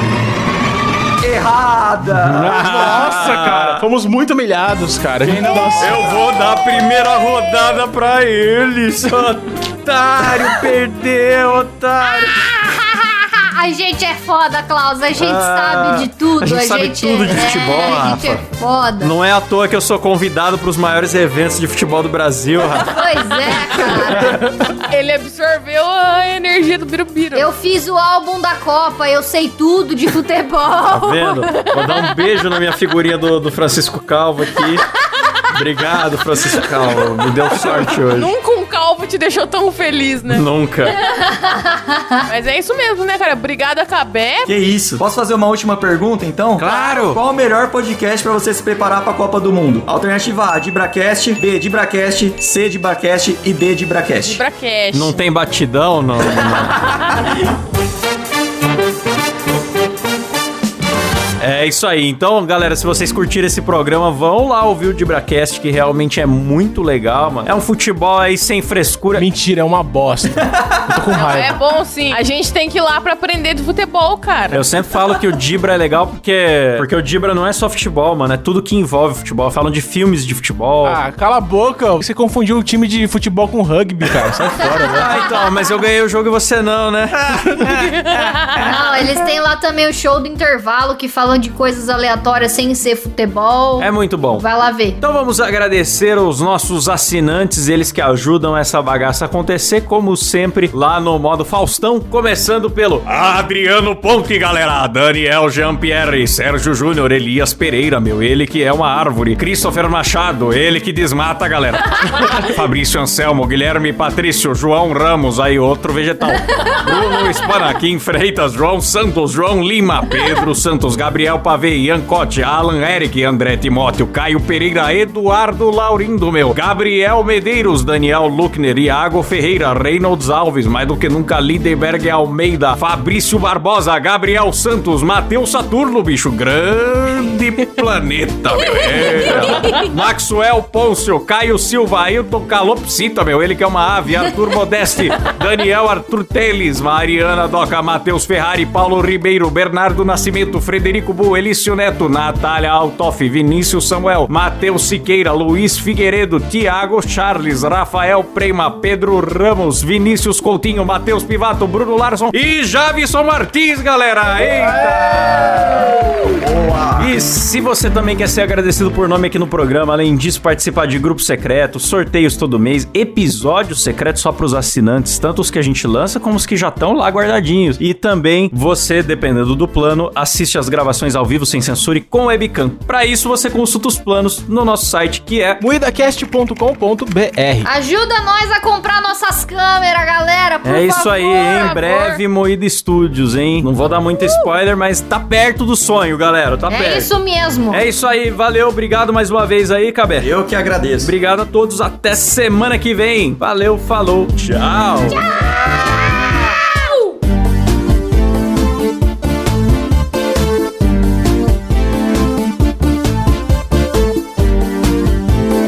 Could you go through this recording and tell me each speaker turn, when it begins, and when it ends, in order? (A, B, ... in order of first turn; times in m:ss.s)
0:01.2-0:03.3 A
0:02.1-0:03.8 B
0:02.6-0:06.1 C
0:05.2-0:12.5 B
0:05.2-0:06.3 A
0:12.0-0:19.1 D
0:15.1-0:18.4 B
0:19.0-0:23.0 B
0:22.8-0:24.4 D
0:23.7-0:24.2 B
0:24.2-0:24.7 C
0:24.8-0:27.5 E
0:27.3-0:31.4 D
0:30.9-0:34.8 B
0:31.7-0:32.2 E
0:35.5-0:38.3 B
0:37.7-0:40.4 E
0:40.3-0:41.0 B
0:41.0-0:42.2 D
0:42.2-0:44.5 E
0:44.4-0:54.4 A
0:46.6-0:47.2 B
0:54.2-0:55.2 E
0:54.9-0:57.1 B
0:57.0-0:57.4 A
1:01.4-1:09.3 B
1:09.2-1:11.6 C
1:10.4-1:11.0 A
1:11.1-1:14.8 E
1:14.5-1:21.0 B
1:20.8-1:25.2 C
1:24.6-1:29.0 B
1:28.1-1:28.6 E
1:28.6-1:35.0 D
1:33.8-1:34.4 B
1:35.0-2:46.4 B
2:44.6-2:47.2 A
2:47.0-3:05.6 B
3:05.6-3:07.7 C
3:07.6-3:11.4 D
3:10.6-3:17.1 B
3:11.2-3:12.2 E
3:16.7-3:17.8 D
3:17.7-3:20.3 B
3:20.2-3:21.1 A
3:21.0-3:25.4 B
3:25.1-3:27.0 D
3:26.0-3:26.3 B